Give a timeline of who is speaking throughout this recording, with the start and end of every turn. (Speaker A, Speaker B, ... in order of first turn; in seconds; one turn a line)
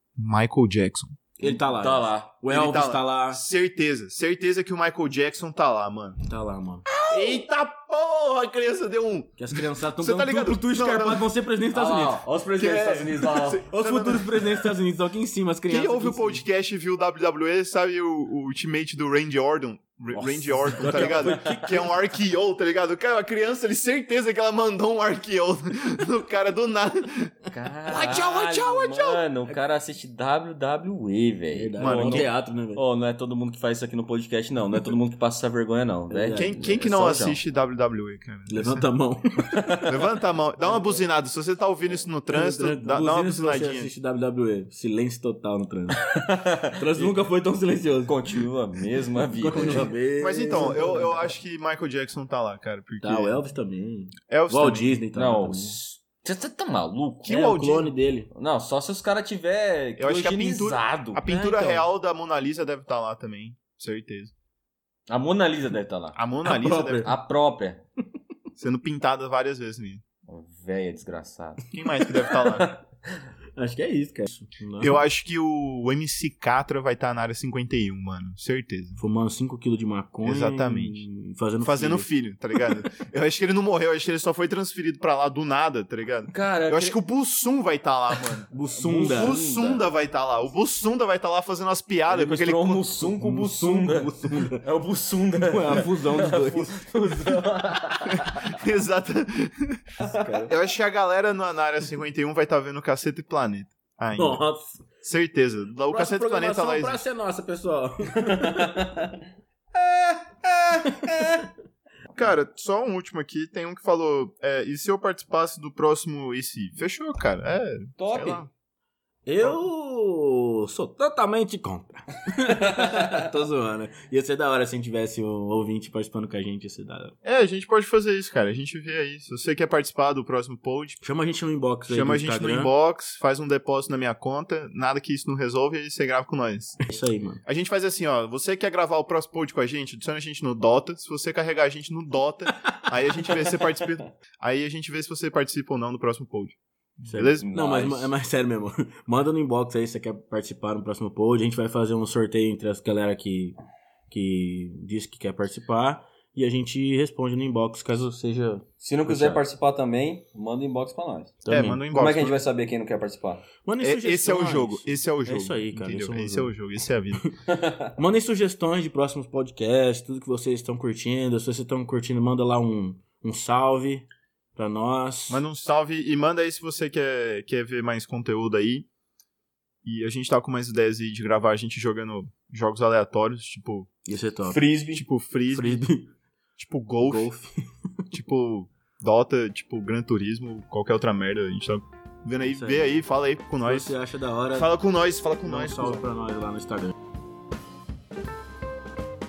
Speaker A: 0.1-1.1
Speaker B: 1.4-3.4
Speaker C: 1.4-2.4
Speaker A: 2.5-6.2
Speaker B: 6.2-6.8
Speaker C: 6.9-7.2
Speaker A: 7.1-11.3
Speaker B: 9.4-12.2
Speaker C: 11.7-13.6
Speaker A: 12.6-14.7
Speaker B: 13.7-16.4
Speaker A: 15.7-27.3
Speaker B: 20.1-21.7
Speaker C: 20.8-21.8
Speaker C: 27.5-37.4
Speaker A: 27.9-29.2
Speaker B: 31.5-32.8
Speaker A: 31.8-32.3
Speaker B: 36.1-36.6
Speaker A: 36.3-38.8
Speaker B: 38.5-39.9
Speaker C: 39.5-40.0
Speaker A: 39.8-43.9
Speaker B: 42.3-46.0
Speaker C: 46.0-47.1
Speaker B: 46.8-48.2
Speaker C: 48.0-49.9
Speaker B: 49.4-51.3
Speaker A: 50.2-53.4
Speaker B: 53.0-55.8
Speaker A: 54.3-54.9
Speaker C: 55.1-57.5
Speaker A: 57.2-57.9
Speaker B: 57.3-58.3
Speaker C: 58.3-61.3
Speaker A: 60.0-64.3
Speaker B: 61.3-61.8
Speaker C: 65.1-66.2
Speaker A: 66.2-67.1
Speaker B: 66.4-67.1
Speaker C: 67.0-67.8
Speaker A: 68.6-70.0
Speaker C: 70.3-72.8
Speaker A: 71.7-72.7
Speaker B: 73.5-75.0
Speaker A: 74.8-79.0
Speaker B: 79.0-82.1
Speaker A: 80.2-81.0
Speaker A: 81.6-92.9
Speaker C: 86.3-87.0
Speaker B: 88.5-89.4
Speaker C: 88.8-89.9
Speaker C: 92.1-98.6
Speaker B: 93.0-94.6
Speaker B: 95.4-96.8
Speaker A: 98.1-99.8
Speaker B: 100.0-100.5
Speaker C: 100.0-100.3
Speaker A: 100.5-104.4
Speaker B: 104.2-104.8
Speaker A: 105.0-107.0
Speaker B: 105.9-108.8
Speaker C: 108.2-109.2
Speaker C: 109.7-111.5
Speaker A: 112.1-118.5
Speaker C: 118.0-118.4
Speaker B: 119.2-127.1
Speaker C: 122.6-123.2
Speaker A: 127.2-131.0
Speaker B: 131.0-132.7
Speaker A: 131.9-136.8
Speaker B: 136.8-137.4
Speaker A: 137.4-147.5
Speaker B: 147.0-153.6
Speaker C: 147.4-148.1
Speaker B: 154.1-159.4
Speaker C: 158.8-161.4
Speaker B: 161.4-161.8
Speaker A: 161.5-162.4
Speaker C: 161.9-163.5
Speaker B: 163.6-166.5
Speaker A: 163.8-167.2
Speaker C: 167.5-167.9
Speaker B: 168.0-175.4
Speaker A: 175.3-178.9
Speaker A: 179.8-183.9
Speaker B: 184.1-184.6
Speaker C: 184.4-185.0
Speaker A: 184.9-185.8
Speaker B: 185.5-186.1
Speaker A: 186.6-187.3
Speaker B: 187.0-187.6
Speaker A: 188.1-193.9
Speaker B: 192.4-192.9
Speaker B: 193.6-194.7
Speaker A: 194.5-196.0
Speaker B: 195.4-196.9